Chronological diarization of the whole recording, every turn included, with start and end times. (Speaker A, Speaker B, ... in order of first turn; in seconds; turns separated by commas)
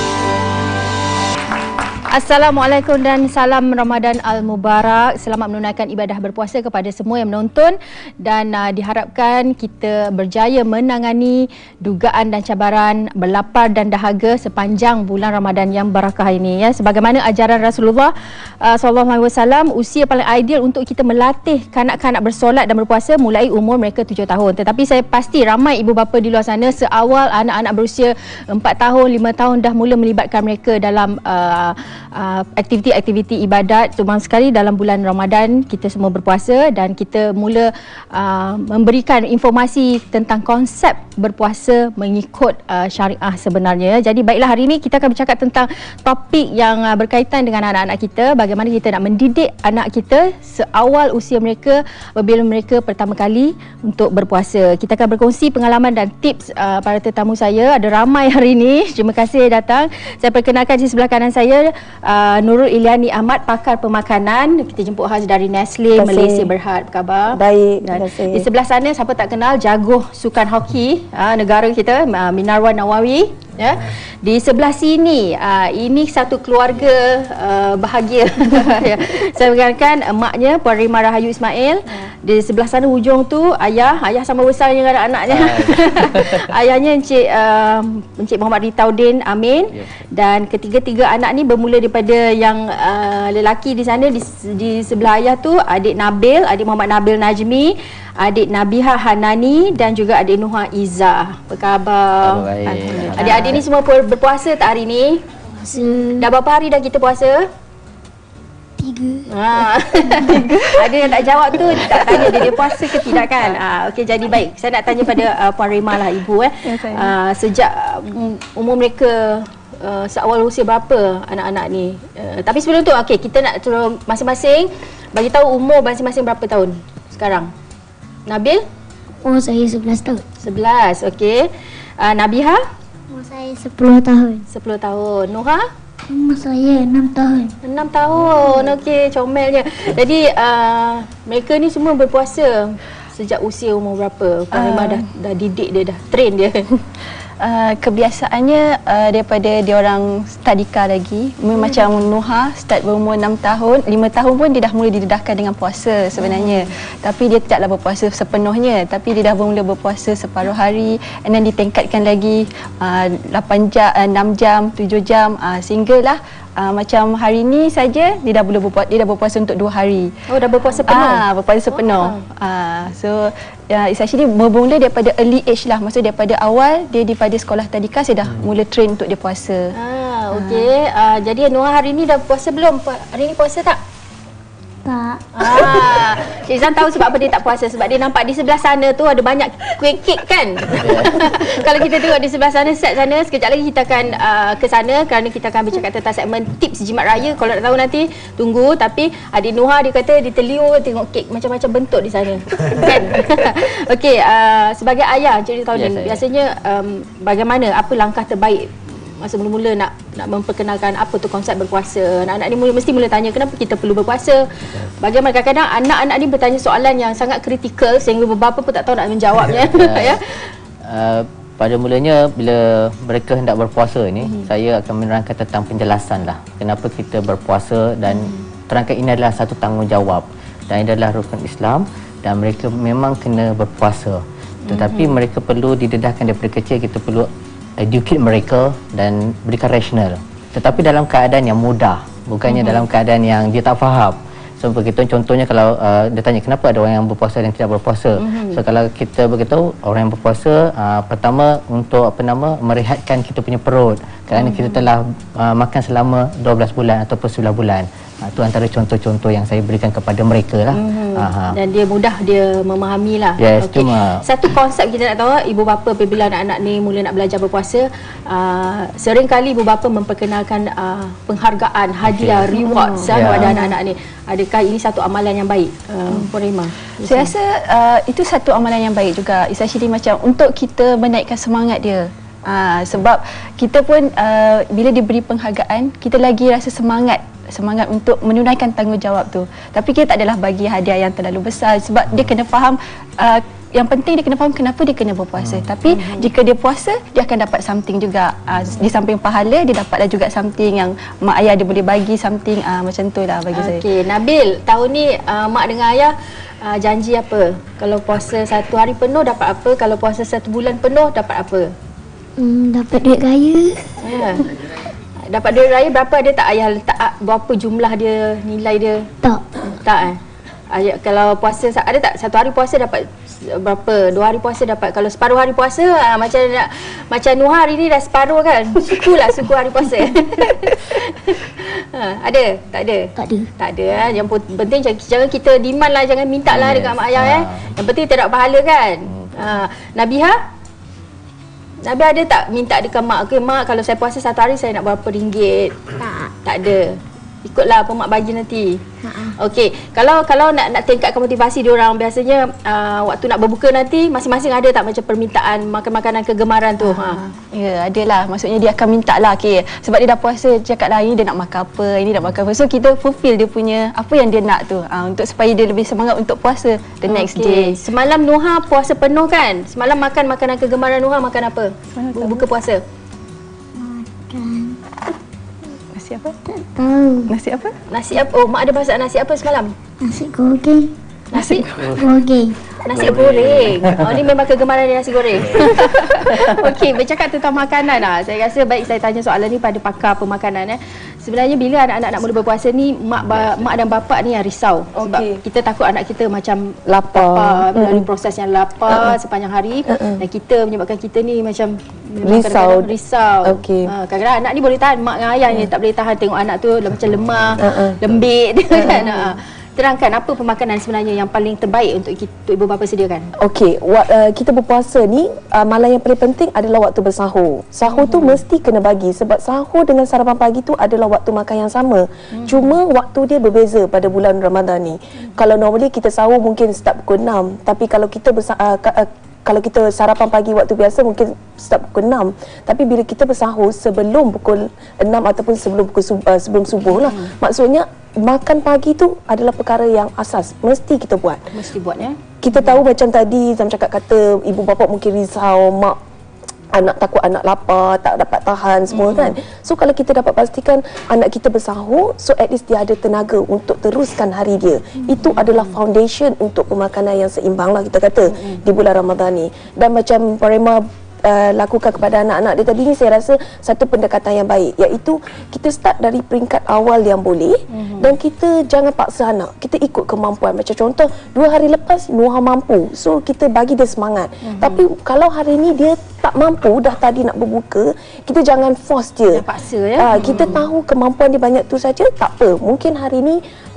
Speaker A: 2.1-102.5, Speaker B: 66.0-66.5, Speaker B: 67.3-68.5, Speaker C: 85.3-86.5, Speaker C: 89.7-90.0, Speaker C: 102.2-103.7, Speaker D: 102.7-103.6, Speaker A: 103.2-105.2, Speaker E: 105.6-106.3, Speaker A: 106.2-107.5, Speaker E: 108.8-109.3, Speaker A: 109.3-127.5, Speaker D: 110.2-110.9, Speaker C: 111.7-112.5, Speaker D: 111.8-113.2, Speaker D: 116.7-117.2, Speaker A: 128.3-128.6, Speaker E: 129.2-130.2, Speaker A: 130.4-132.6, Speaker E: 133.1-134.4, Speaker A: 134.5-135.7, Speaker E: 136.1-137.5, Speaker A: 137.6-146.7, Speaker D: 144.5-145.1, Speaker D: 147.4-170.1, Speaker A: 151.6-151.9, Speaker A: 156.2-156.6, Speaker A: 170.3-172.2, Speaker D: 170.9-179.7, Speaker A: 179.8-183.8, Speaker D: 180.3-180.7, Speaker E: 184.8-185.9, Speaker A: 185.4-220.5, Speaker C: 190.7-191.3, Speaker C: 205.7-206.2, Speaker C: 219.6-220.2, Speaker C: 220.8-261.6, Speaker A: 228.1-228.3, Speaker A: 234.7-235.2, Speaker A: 242.5-242.9, Speaker A: 248.2-248.6, Speaker A: 254.3-254.9, Speaker A: 260.7-277.3, Speaker C: 263.4-264.2, Speaker C: 272.0-273.6, Speaker D: 272.6-273.0, Speaker D: 277.0-303.8, Speaker A: 295.9-296.3, Speaker A: 303.6-311.7, Speaker E: 312.4-314.5, Speaker A: 314.0-314.5, Speaker A: 315.3-319.1, Speaker E: 319.2-319.6, Speaker A: 319.7-320.2, Speaker A: 320.7-340.4, Speaker E: 333.2-333.5, Speaker C: 336.5-337.7, Speaker C: 339.1-339.4, Speaker A: 341.8-345.9, Speaker E: 346.0-346.3, Speaker A: 346.4-348.8, Speaker E: 349.0-349.4, Speaker A: 349.4-357.2, Speaker D: 356.8-367.8, Speaker A: 367.1-372.8, Speaker D: 371.9-372.5, Speaker E: 373.8-374.8, Speaker D: 375.9-376.4, Speaker E: 376.6-377.3, Speaker D: 377.3-377.8, Speaker A: 377.9-379.8, Speaker E: 380.0-380.9, Speaker D: 381.3-381.9, Speaker A: 381.3-381.6, Speaker C: 381.8-382.1, Speaker E: 381.9-382.7, Speaker A: 382.8-413.3, Speaker C: 382.9-384.2, Speaker C: 385.4-385.7, Speaker D: 385.8-386.2, Speaker B: 395.0-395.4, Speaker B: 396.9-398.1, Speaker B: 398.9-399.2, Speaker B: 399.9-400.2, Speaker B: 402.2-403.9, Speaker B: 407.6-408.0, Speaker B: 408.7-409.4, Speaker B: 413.4-441.5, Speaker A: 417.9-418.4, Speaker A: 422.4-422.8, Speaker A: 436.9-437.3, Speaker A: 441.5-442.8, Speaker B: 442.4-446.0, Speaker B: 446.7-479.4, Speaker A: 448.9-449.4, Speaker A: 458.3-458.6, Speaker A: 467.7-468.2, Speaker A: 474.5-474.8, Speaker A: 479.3-480.6, Speaker B: 480.0-483.4